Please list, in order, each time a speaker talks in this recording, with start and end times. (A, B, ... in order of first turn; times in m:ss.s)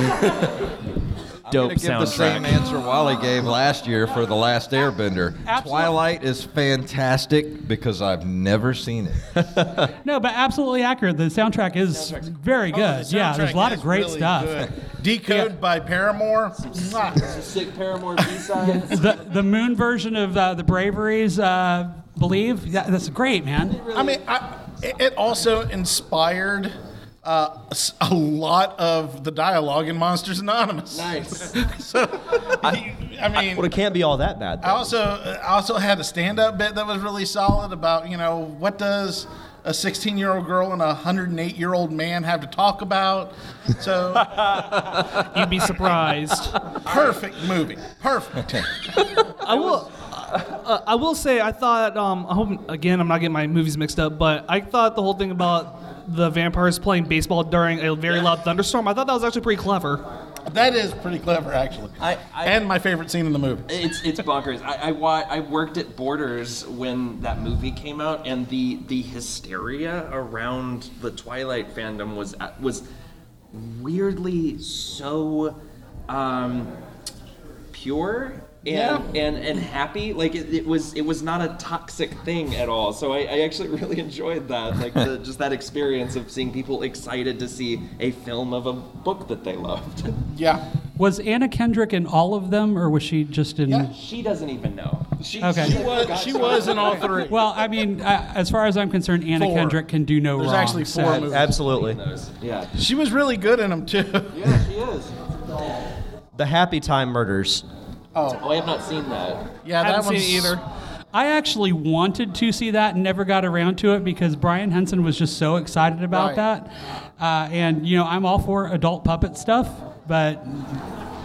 0:01.5-0:09.2 A
0:01.5-0:02.7 B
0:02.1-0:02.4 C
0:05.4-0:06.0 D
0:10.0-0:14.7 D
0:11.9-0:12.3 C
0:12.7-0:17.5 E
0:15.3-0:15.5 D
0:17.2-0:19.0 C
0:18.2-0:19.0 E
0:18.9-0:23.8 D
0:23.7-0:24.2 C
0:23.9-0:33.7 E
0:30.9-0:32.1 C
0:33.4-0:34.9 B
0:34.6-0:44.8 E
0:45.3-0:46.6 F
0:46.8-0:48.7 E
0:49.4-1:00.0 F
1:00.5-1:03.7 E
1:02.0-1:02.6 C
1:03.7-1:12.8 C
1:13.5-1:15.6 C
1:16.1-1:16.7 C
1:17.7-1:30.2 C
1:18.7-1:19.1 E
1:30.3-1:30.6 E
1:31.0-1:33.9 D
1:33.9-1:37.3 C
1:35.2-1:37.5 E
1:35.4-1:35.8 D
1:37.3-1:41.4 D
1:39.4-1:39.8 E
1:40.4-1:41.6 E
1:41.3-1:42.0 B
1:41.4-1:42.7 C
1:42.8-1:44.6 E
1:44.3-1:45.1 C
1:46.4-1:47.6 B
1:48.2-1:48.4 E
1:48.4-1:49.6 C
1:49.7-1:50.6 E
1:49.8-1:50.6 F
1:51.1-2:00.8 D
1:56.1-1:56.4 E